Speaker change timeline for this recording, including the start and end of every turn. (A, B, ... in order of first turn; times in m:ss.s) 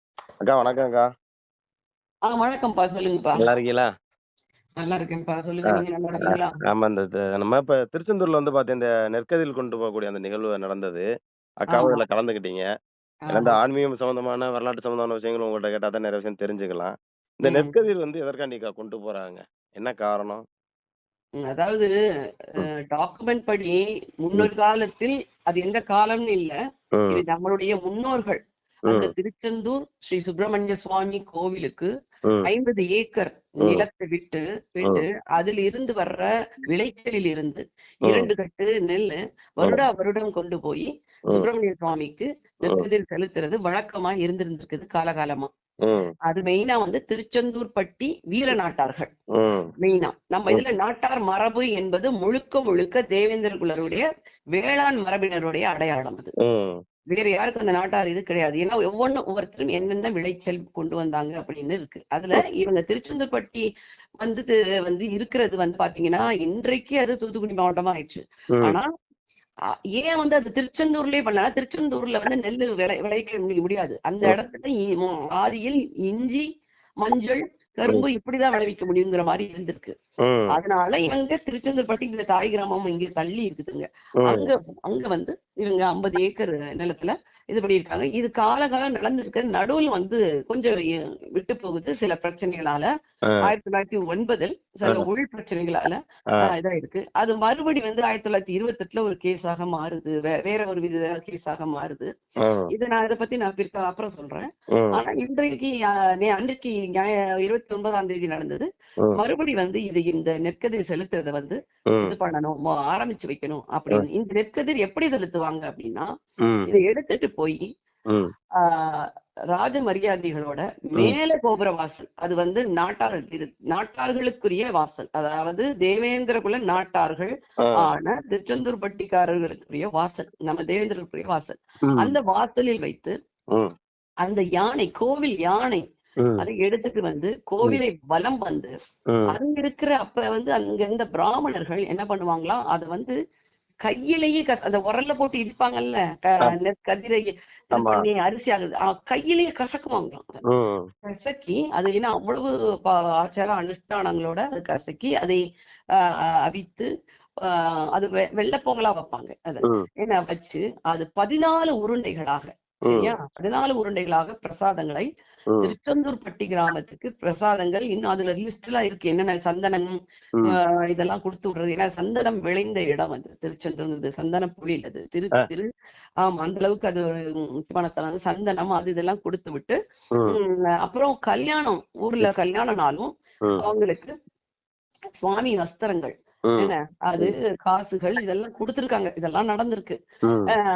0:00.5-0:01.1 A
0:02.3-0:03.5 B
0:03.4-0:03.9 A
0:04.8-0:06.6 B
0:05.7-0:11.0 A
0:11.7-0:12.7 A
0:11.7-0:12.0 B
0:13.3-0:13.6 B
0:13.3-0:20.4 A
0:17.5-0:17.7 B
0:21.4-0:21.9 B
0:22.9-0:26.6 B
0:27.0-0:27.2 A
0:27.1-0:31.9 B
0:32.5-0:45.5 B
0:45.9-0:46.1 A
0:46.3-0:49.1 B
0:49.4-0:49.7 A
0:49.8-0:54.0 B
0:54.6-0:56.3 B
0:56.4-0:56.8 A
0:57.1-1:03.6 B
1:04.2-1:08.9 B
1:10.0-1:16.4 B
1:17.0-1:19.9 B
1:20.5-1:30.8 B
1:31.4-1:32.9 B
1:33.5-1:42.1 B
1:42.7-1:48.7 B
1:49.2-1:56.1 B
1:56.7-1:57.6 B
1:58.6-2:13.2 B
2:14.2-2:15.8 B
2:16.4-2:18.7 B
2:19.3-2:23.1 B
2:23.9-2:30.4 B
2:27.8-2:28.0 A
2:30.5-2:30.9 A
2:31.1-2:35.4 B
2:36.0-2:36.9 B
2:37.4-2:45.1 B
2:42.9-2:43.2 A
2:45.6-2:49.9 B
2:50.5-2:55.7 B
2:56.2-2:59.8 B
3:00.3-3:03.1 B
3:03.6-3:04.2 B
3:05.2-3:10.0 B
3:06.5-3:07.3 A